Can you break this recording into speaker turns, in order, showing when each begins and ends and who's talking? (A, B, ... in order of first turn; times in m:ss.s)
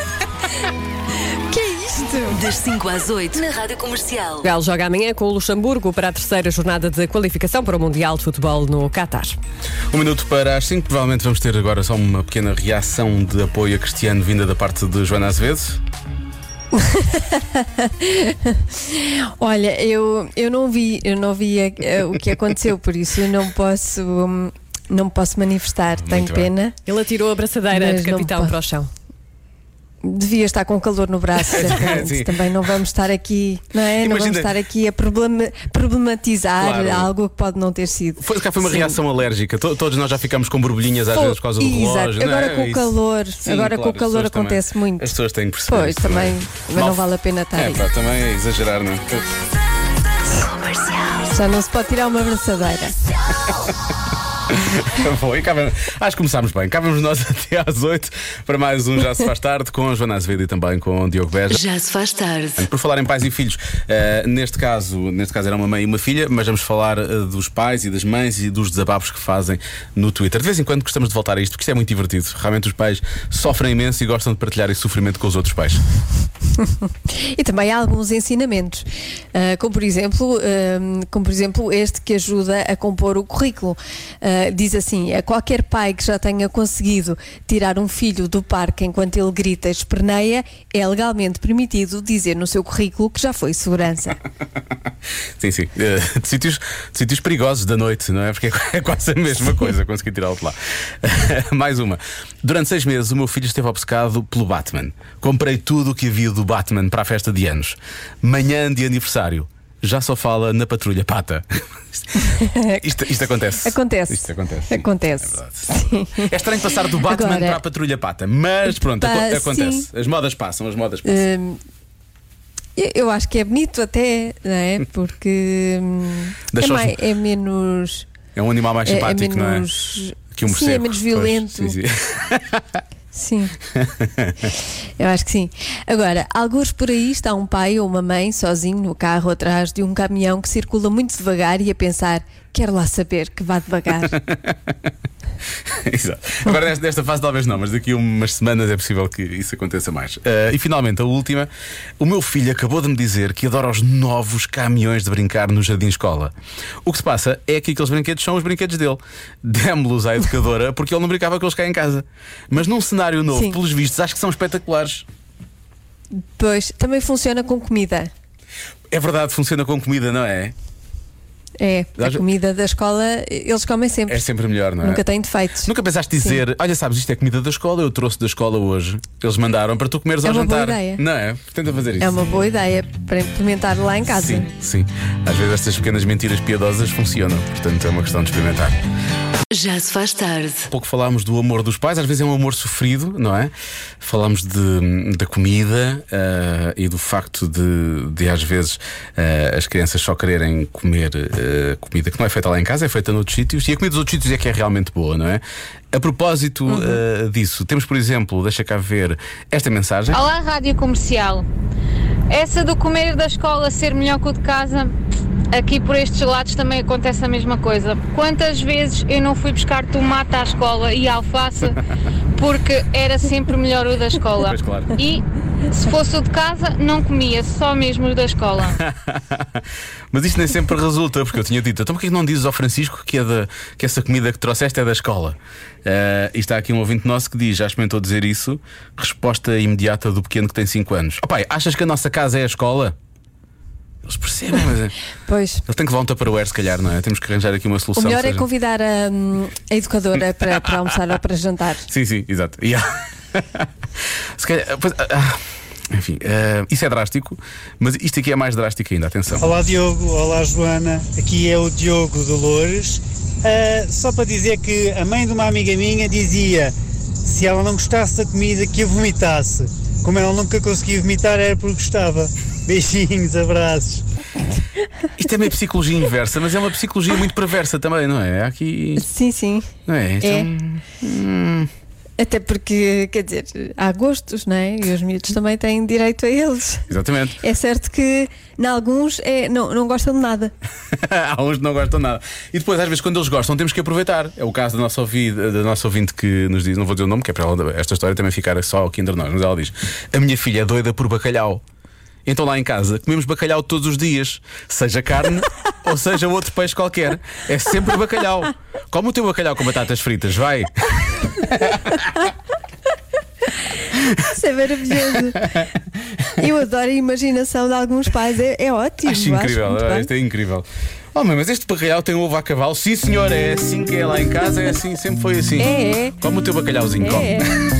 0:01.3-0:02.4 A
0:02.2-0:04.5 B
0:04.4-0:09.4 C
0:09.9-0:15.8 D
0:16.7-0:26.8 A
0:25.9-0:26.5 D
0:26.8-0:28.9 C
0:27.7-0:28.6 A
0:30.0-0:39.0 A
0:31.5-0:32.7 D
0:33.9-0:34.5 D
0:36.6-0:37.1 D
0:38.2-0:47.0 D
0:41.1-0:45.2 A
0:45.7-0:47.8 A
0:47.5-0:49.2 D
0:50.5-0:51.1 B
0:51.3-0:53.0 A
0:54.5-1:01.6 D
1:01.5-1:02.6 B
1:02.6-1:15.8 D
1:16.6-1:34.2 A
1:35.4-1:55.7 D
1:52.2-1:52.8 A
1:53.6-1:56.3 A
1:56.2-2:01.2 D
1:57.0-1:57.6 A
1:58.7-1:59.9 A
2:01.0-2:01.6 A
2:02.8-2:08.1 A
2:06.5-2:07.0 D
2:08.3-2:09.7 D
2:08.8-2:11.8 A
2:10.3-2:12.8 D
2:13.1-2:13.6 A
2:13.7-2:14.5 D
2:15.0-2:24.2 A
2:24.0-2:24.9 D
2:25.6-2:45.0 D
2:43.3-2:43.6 A
2:46.1-2:48.1 A
2:48.9-2:50.5 D
2:51.6-2:54.2 A
2:52.0-2:52.2 D
2:54.1-2:55.0 D
2:54.8-2:56.4 A
2:55.6-3:02.2 D
3:00.2-3:01.0 A
3:02.0-3:04.5 A
3:04.0-3:08.8 D
3:09.5-3:10.7 B
3:10.7-3:30.2 D
3:30.1-3:31.4 E
3:32.3-3:34.9 E
3:35.5-3:41.8 E
3:42.4-3:48.8 E
3:44.4-3:45.0 D
3:48.8-4:03.0 D
4:04.0-4:04.9 D
4:05.3-4:05.6 A
4:05.6-4:08.5 D
4:08.0-4:11.9 A
4:10.4-4:10.7 D
4:11.9-4:13.7 D
4:14.4-4:19.5 D
4:19.4-4:26.7 F
4:27.2-4:34.0 F
4:35.2-4:39.1 D
4:39.0-4:39.7 A
4:39.8-4:41.7 D
4:40.2-4:40.5 A
4:42.2-4:46.9 A
4:46.9-4:47.4 D
4:47.4-4:50.5 A
4:50.9-5:01.6 D
5:02.2-5:12.2 D
5:14.2-5:15.4 A
5:15.1-5:16.3 D
5:16.4-5:20.1 A
5:19.0-5:27.5 D
5:25.6-5:26.2 A
5:27.0-5:27.6 A